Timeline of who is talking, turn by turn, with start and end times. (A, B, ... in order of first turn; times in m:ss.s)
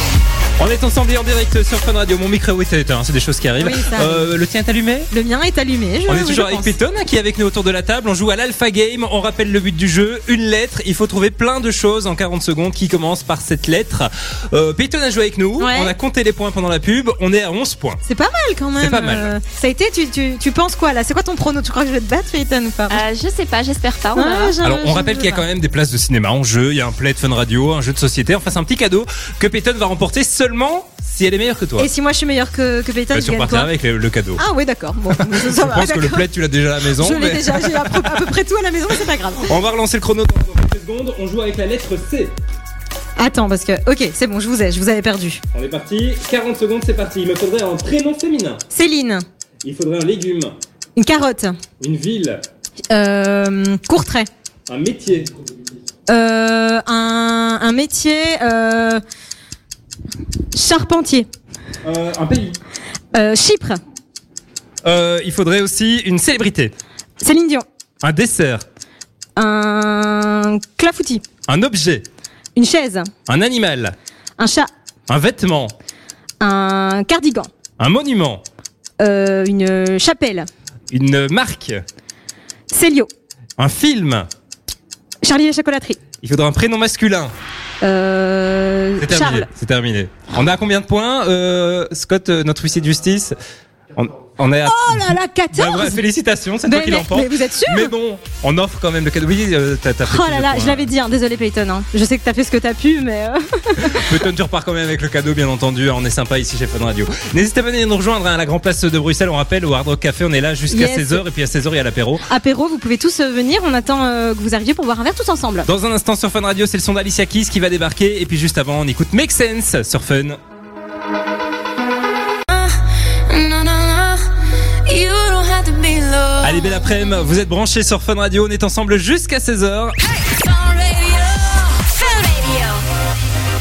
0:00.6-0:05.1 A
0:03.6-0:04.3 B
0:05.1-0:06.7 B
0:06.1-0:18.0 A
0:15.6-0:15.9 B
0:18.1-0:23.0 B
0:18.8-0:19.3 A
0:22.9-0:24.6 C
0:24.1-0:25.4 B
0:24.6-0:31.9 A
0:31.8-0:33.7 B
0:33.1-0:34.4 A
0:34.4-0:36.3 B
0:35.2-0:38.2 A
0:37.0-0:39.6 B
0:39.4-0:42.3 A
0:43.2-0:45.4 B
0:45.5-0:48.6 A
0:48.7-0:49.2 B
0:49.6-0:50.6 A
0:51.0-0:51.6 B
0:51.8-0:52.4 A
0:52.9-0:54.3 B
0:54.7-0:55.3 A
0:56.1-0:59.0 B
1:00.5-1:01.3 B
1:01.8-1:02.6 A
1:03.1-1:03.8 B
1:04.8-1:06.7 A
1:07.2-1:07.7 B
1:08.0-1:08.6 A
1:09.4-1:11.2 B
1:11.5-1:12.0 A
1:12.6-1:13.1 B
1:13.3-1:14.0 A
1:14.4-1:14.7 B
1:15.1-1:15.7 A
1:16.4-1:17.5 B
1:17.8-1:18.4 A
1:19.0-1:20.5 B
1:20.9-1:21.8 A
1:22.7-1:23.1 B
1:23.6-1:24.3 A
1:25.2-1:26.0 B
1:26.2-1:27.3 A
1:27.8-1:29.5 B
1:29.0-1:33.4 A
1:34.0-1:40.9 A
1:34.7-1:36.0 B
1:36.6-1:37.9 B
1:40.1-1:44.2 B
1:43.9-1:52.2 A
1:50.7-1:51.2 B
1:52.3-1:55.7 B
1:55.7-2:00.4 A
2:02.5-2:04.3 C
2:04.8-2:06.9 C
2:06.4-2:10.0 A
2:10.3-2:12.8 C